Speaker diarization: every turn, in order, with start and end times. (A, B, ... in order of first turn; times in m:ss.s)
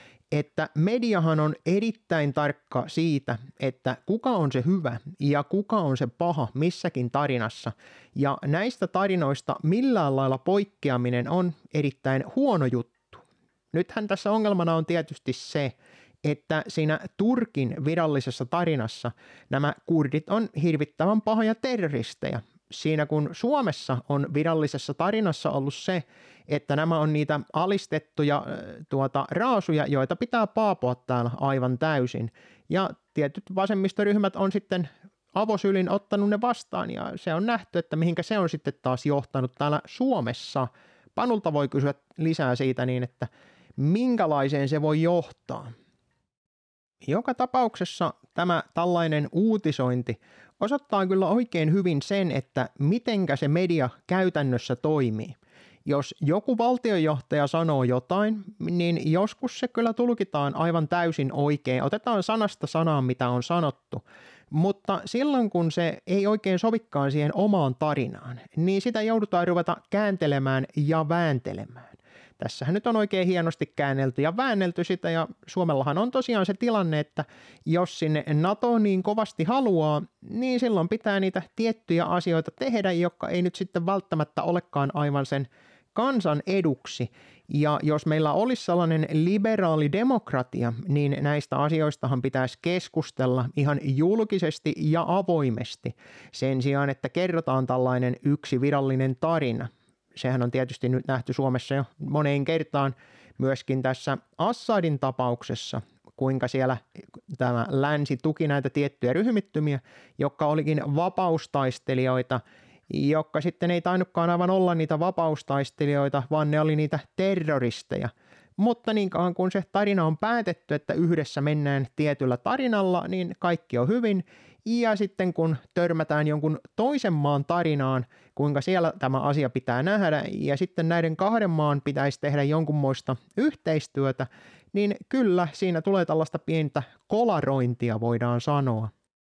0:00.3-0:45.7 A
0:47.0-2:18.9 A